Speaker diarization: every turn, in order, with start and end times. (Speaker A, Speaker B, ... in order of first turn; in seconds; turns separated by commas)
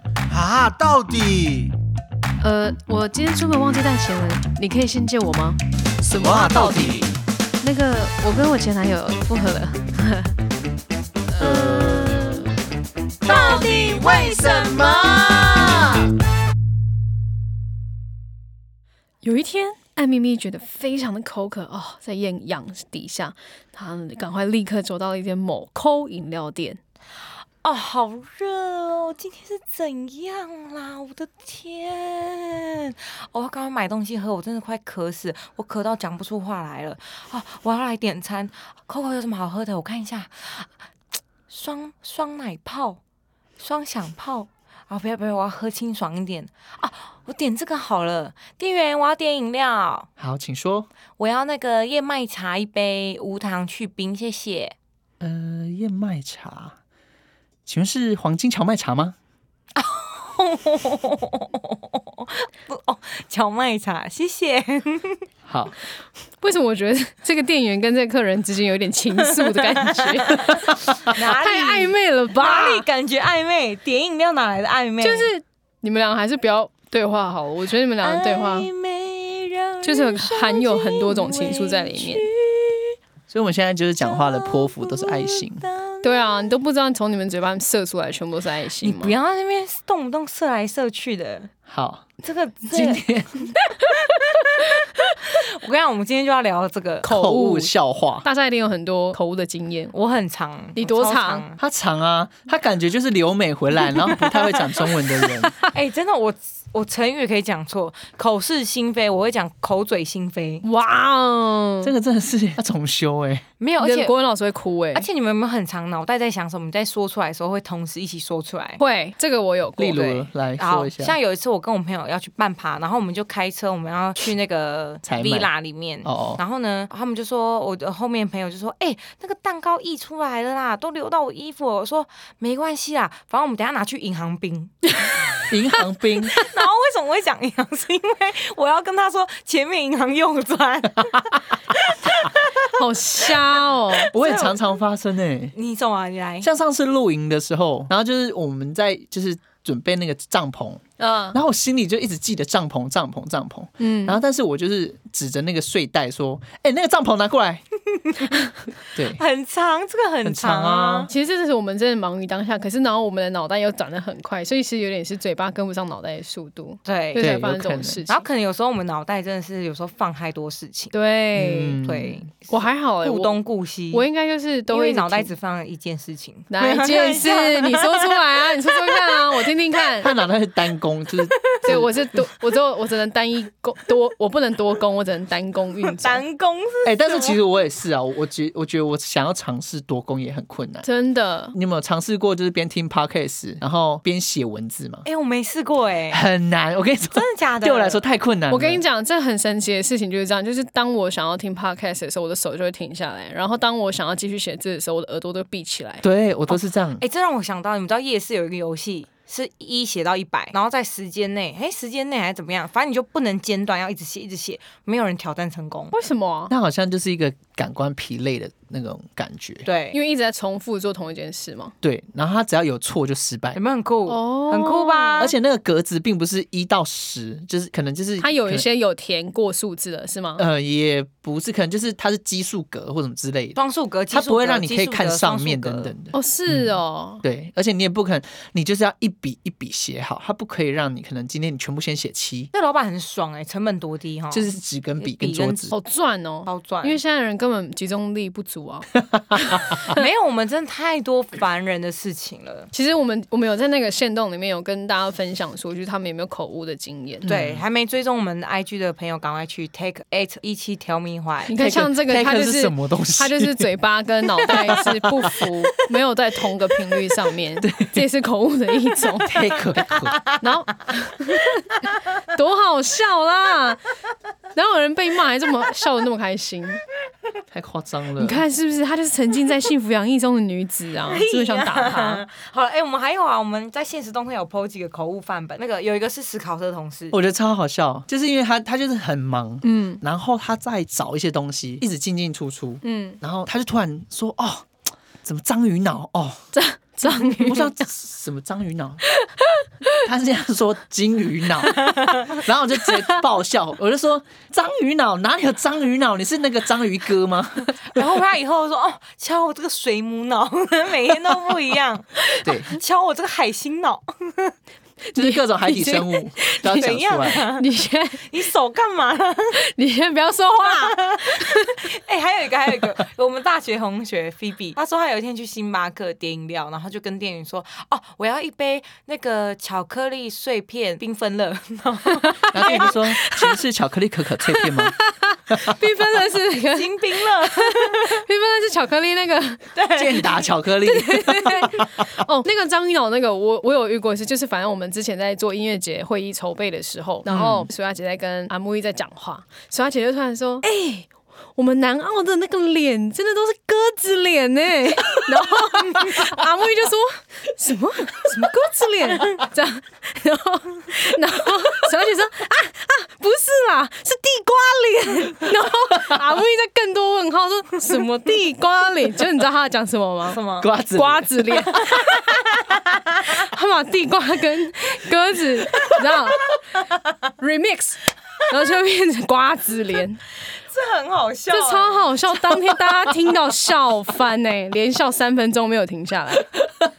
Speaker A: 0.3-1.7, Speaker B: 2.4-5.6, Speaker C: 6.0-7.1, Speaker A: 6.4-6.8, Speaker B: 6.5-6.9, Speaker B: 7.6-10.4, Speaker B: 11.3-12.5, Speaker B: 13.3-15.8, Speaker A: 13.8-15.4, Speaker B: 19.2-26.8, Speaker D: 27.6-40.7, Speaker D: 41.5-43.0, Speaker D: 43.6-50.1, Speaker C: 50.2-50.9, Speaker D: 51.2-54.8, Speaker C: 55.2-56.8, Speaker C: 57.7-59.2, Speaker D: 59.8-65.2, Speaker C: 65.5-65.8, Speaker B: 66.4-72.8, Speaker D: 69.2-70.5, Speaker D: 71.0-75.3, Speaker B: 75.0-78.7, Speaker D: 78.0-83.0, Speaker B: 79.8-82.3, Speaker C: 83.3-85.7, Speaker D: 84.0-86.5, Speaker B: 86.0-89.1, Speaker D: 88.8-91.5, Speaker C: 91.7-92.1, Speaker D: 92.2-93.0, Speaker C: 92.7-93.5, Speaker D: 93.9-97.1, Speaker B: 94.6-95.1, Speaker B: 97.0-97.7, Speaker C: 97.0-98.3, Speaker B: 98.2-99.9, Speaker D: 99.9-101.6, Speaker B: 100.8-101.4, Speaker C: 101.6-105.5, Speaker B: 104.8-105.7, Speaker D: 105.7-110.6, Speaker B: 110.6-111.9, Speaker C: 111.8-113.5, Speaker D: 113.6-114.1, Speaker B: 113.8-115.1, Speaker D: 114.9-118.8, Speaker B: 118.8-120.1, Speaker C: 119.8-121.2, Speaker D: 120.0-135.4, Speaker C: 125.0-125.5, Speaker C: 126.0-126.4, Speaker C: 135.5-136.4, Speaker D: 136.3-142.4, Speaker B: 142.7-144.1, Speaker D: 144.0-144.6, Speaker C: 144.1-145.5, Speaker D: 145.6-146.5, Speaker C: 146.4-157.6, Speaker B: 153.8-154.2, Speaker C: 158.9-159.2, Speaker D: 159.0-161.1, Speaker C: 160.2-161.1, Speaker B: 161.1-168.2, Speaker D: 166.9-167.3, Speaker C: 167.2-168.0, Speaker D: 168.1-170.9, Speaker B: 170.9-171.8, Speaker C: 171.3-172.3, Speaker D: 171.8-174.1, Speaker B: 172.5-173.4, Speaker B: 173.9-175.3, Speaker D: 174.7-179.5, Speaker B: 176.5-180.1, Speaker C: 180.0-181.9, Speaker D: 181.3-181.8, Speaker B: 181.6-186.2, Speaker D: 185.8-187.4, Speaker C: 186.8-190.9, Speaker B: 190.8-191.5, Speaker C: 191.5-195.1, Speaker D: 195.1-196.2, Speaker C: 196.1-198.8, Speaker D: 197.1-198.0, Speaker B: 198.5-206.1, Speaker C: 206.0-207.0, Speaker D: 206.5-216.0, Speaker B: 215.9-216.5, Speaker C: 216.5-219.7, Speaker D: 219.7-220.0, Speaker B: 219.9-221.7, Speaker C: 221.8-223.6, Speaker D: 223.6-225.3, Speaker B: 224.1-225.3, Speaker C: 225.2-228.7, Speaker B: 228.2-230.4, Speaker C: 230.4-233.6, Speaker D: 233.6-235.9, Speaker C: 234.1-242.5, Speaker B: 236.1-237.2, Speaker D: 242.5-244.5, Speaker C: 244.3-245.7, Speaker D: 245.0-245.7, Speaker B: 245.7-248.9, Speaker D: 246.5-247.0, Speaker C: 249.1-249.6, Speaker B: 249.5-250.0, Speaker D: 249.9-252.7, Speaker B: 252.7-257.3, Speaker C: 257.2-257.6, Speaker D: 257.3-261.6, Speaker B: 261.5-269.4, Speaker C: 261.6-263.6, Speaker C: 264.5-265.5, Speaker C: 267.6-268.0, Speaker C: 269.2-270.2, Speaker D: 269.6-270.4, Speaker B: 270.4-273.8, Speaker B: 274.6-276.8, Speaker C: 277.5-278.4, Speaker B: 278.2-282.2, Speaker D: 281.1-287.2, Speaker C: 287.1-294.7, Speaker B: 289.6-290.0, Speaker B: 292.8-293.2, Speaker C: 295.2-296.5, Speaker B: 296.5-297.7, Speaker C: 297.0-299.0, Speaker B: 299.3-300.0, Speaker C: 300.0-308.0, Speaker B: 302.8-303.2, Speaker D: 307.8-314.6, Speaker C: 312.4-312.7, Speaker B: 315.1-318.4, Speaker C: 315.1-317.4, Speaker D: 316.7-317.7, Speaker D: 318.3-319.6, Speaker B: 319.5-321.8, Speaker D: 320.7-332.9, Speaker B: 332.2-333.6, Speaker C: 332.5-335.0, Speaker B: 334.5-339.6, Speaker C: 335.5-335.8, Speaker D: 336.8-338.2, Speaker D: 339.8-340.5, Speaker C: 339.9-342.1, Speaker B: 340.8-370.4, Speaker C: 347.3-347.7, Speaker D: 370.3-370.7, Speaker C: 370.6-371.7, Speaker B: 370.9-372.1, Speaker D: 371.8-373.2, Speaker B: 373.3-376.6, Speaker B: 377.4-380.2, Speaker D: 380.6-383.1, Speaker B: 381.5-386.6